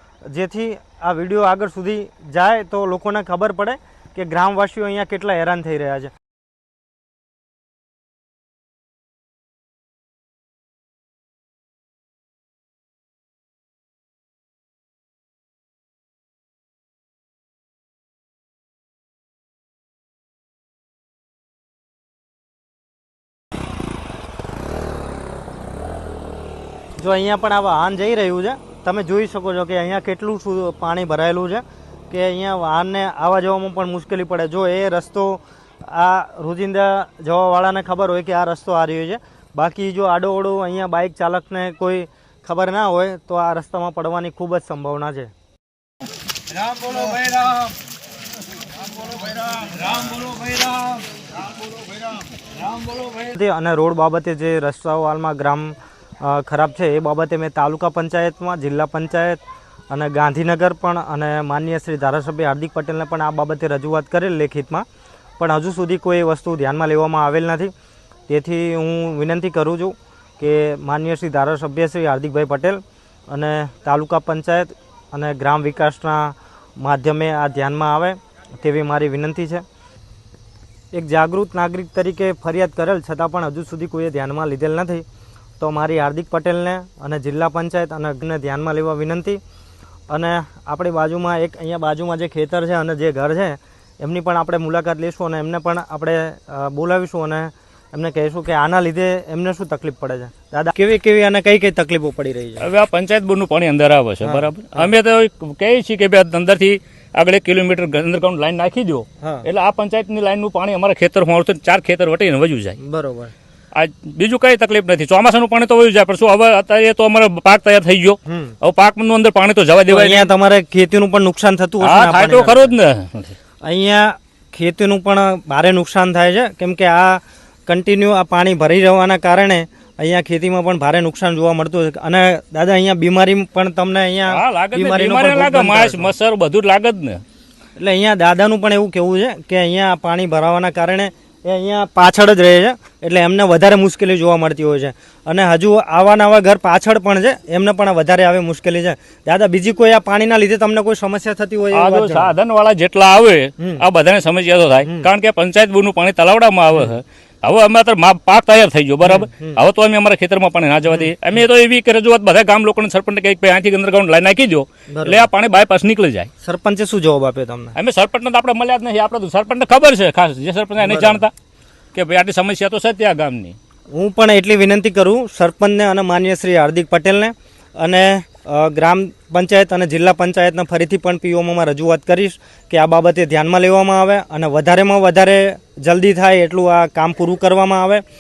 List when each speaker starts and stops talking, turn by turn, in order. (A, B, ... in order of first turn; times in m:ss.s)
0:00.2-0:06.1 A
0:27.0-0:45.3 A
0:46.5-0:47.5 A
0:49.2-0:51.0 A
0:52.6-1:04.8 A
1:05.4-1:07.7 A
1:08.3-1:19.6 A
1:20.9-1:25.0 A
1:25.6-1:29.4 A
1:30.1-1:42.7 A
1:42.6-1:52.8 B
1:44.2-1:44.9 A
1:49.2-1:49.5 A
1:52.8-1:53.3 A
1:53.7-2:00.3 B
1:58.3-1:58.6 A
1:59.9-2:02.7 A
2:01.8-2:03.4 B
2:03.6-2:16.1 A
2:14.3-2:17.2 B
2:17.8-2:32.3 A
2:31.7-2:46.3 B
2:33.6-2:33.8 A
2:34.8-2:35.1 A
2:39.0-2:39.6 A
2:44.9-2:45.3 A
2:46.4-2:47.8 A
2:47.8-2:51.3 B
2:50.8-2:51.2 A
2:51.9-2:53.6 B
2:53.9-3:08.0 A